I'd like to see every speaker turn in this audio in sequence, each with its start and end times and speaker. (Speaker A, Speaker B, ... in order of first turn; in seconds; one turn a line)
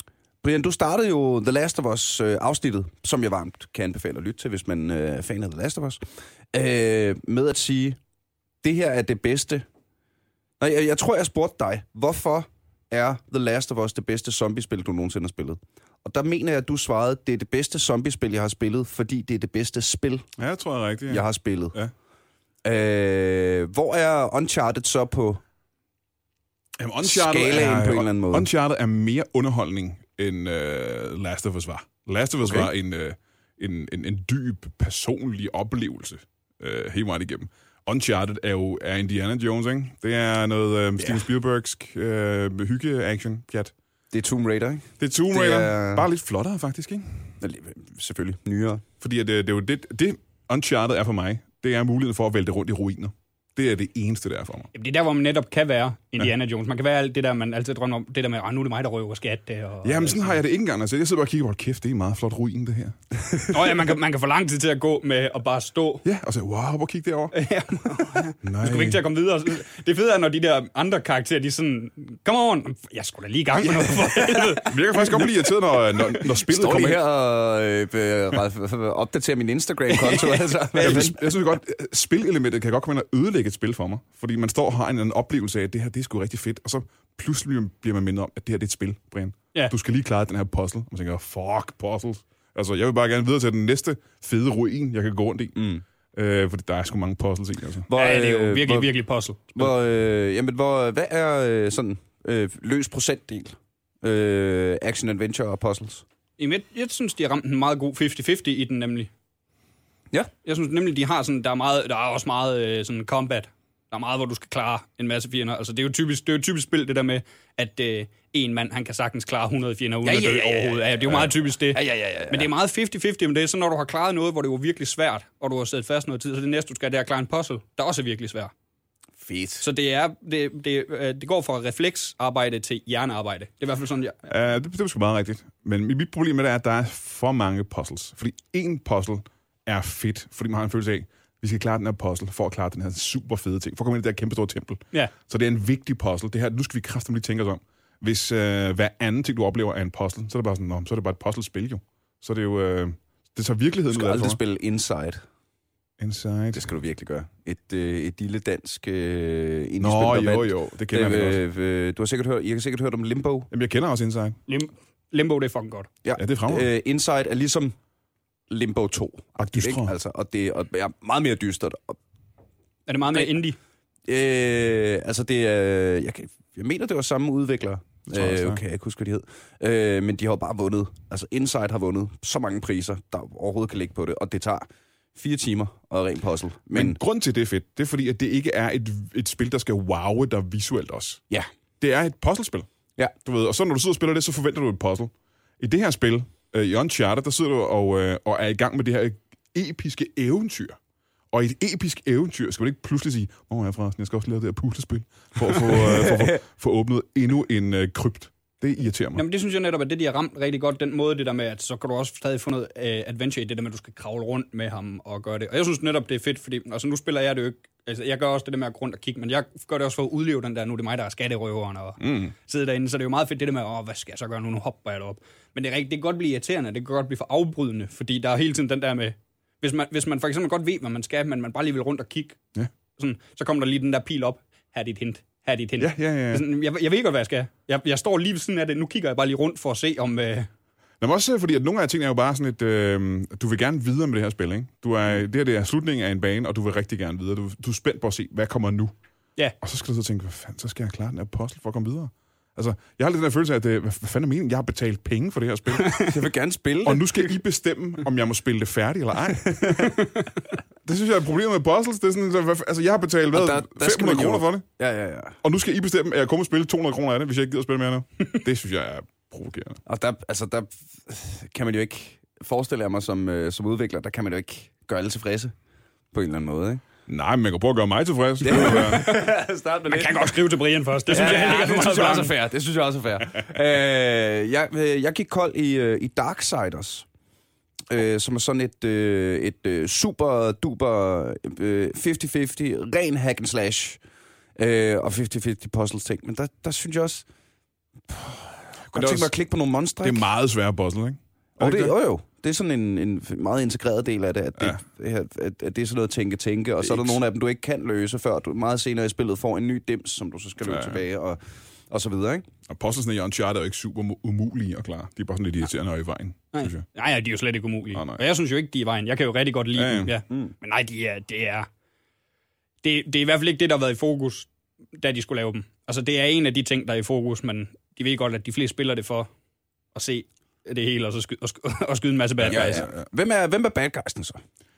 Speaker A: 0.4-6.0
Speaker A: 6.5-8.0
Speaker A: 8.6-9.7
Speaker A: 10.6-20.2
Speaker B: 20.4-21.9
Speaker A: 21.1-21.8
Speaker A: 22.6-25.4
Speaker B: 26.8-43.7
Speaker A: 27.0-28.5
Speaker A: 32.5-32.7
Speaker A: 44.1-46.1
Speaker B: 45.0-47.3
Speaker A: 47.4-48.8
Speaker B: 49.0-54.7
Speaker C: 54.7-60.4
Speaker B: 59.8-63.0
Speaker C: 63.5-66.0
Speaker B: 66.0-67.3
Speaker C: 67.3-75.2
Speaker B: 68.4-69.0
Speaker A: 73.8-74.6
Speaker B: 74.7-77.0
Speaker A: 76.4-81.2
Speaker C: 79.9-81.1
Speaker B: 80.8-95.6
Speaker A: 95.5-95.8
Speaker B: 96.1-97.9
Speaker A: 97.9-98.9
Speaker C: 97.9-99.5
Speaker A: 99.5-106.0
Speaker C: 106.4-109.1
Speaker C: 110.4-128.5
Speaker A: 120.0-122.5
Speaker A: 129.2-129.7
Speaker C: 129.6-134.2
Speaker B: 134.3-154.4
Speaker A: 153.9-155.2
Speaker B: 156.0-156.7
Speaker A: 156.5-163.5
Speaker B: 159.8-161.4
Speaker B: 163.5-164.4
Speaker C: 164.5-165.9
Speaker A: 166.0-167.7
Speaker B: 166.2-166.7
Speaker A: 168.5-172.0
Speaker B: 169.4-169.9
Speaker C: 172.9-173.6
Speaker A: 174.1-187.0
Speaker B: 178.1-178.6
Speaker B: 186.7-191.2
Speaker B: 191.8-192.7
Speaker B: 193.2-200.8
Speaker B: 201.3-209.2
Speaker A: 205.9-206.3
Speaker C: 209.1-232.4
Speaker B: 222.0-222.3
Speaker C: 233.0-240.5
Speaker B: 235.8-236.4
Speaker B: 241.0-248.9
Speaker B: 249.6-256.0
Speaker A: 256.0-257.4
Speaker B: 256.8-260.1
Speaker A: 259.5-260.0
Speaker B: 260.9-264.6
Speaker A: 263.3-265.4
Speaker B: 265.4-269.8
Speaker A: 269.9-275.5
Speaker A: 276.1-276.8
Speaker B: 277.1-279.1
Speaker A: 278.4-280.4
Speaker C: 278.5-279.4
Speaker C: 279.9-282.3
Speaker A: 281.1-287.1
Speaker A: 287.9-294.0
Speaker A: 294.6-297.2
Speaker A: 298.1-300.2
Speaker B: 298.9-299.3
Speaker B: 300.0-301.9
Speaker A: 301.6-311.4
Speaker B: 306.8-307.2
Speaker B: 310.6-311.0
Speaker A: 311.9-312.5
Speaker B: 312.7-316.9
Speaker C: 316.5-321.7
Speaker B: 317.9-318.2
Speaker B: 319.8-320.1
Speaker C: 322.8-329.3
Speaker C: 329.9-332.9
Speaker B: 332.4-333.0
Speaker A: 332.5-334.4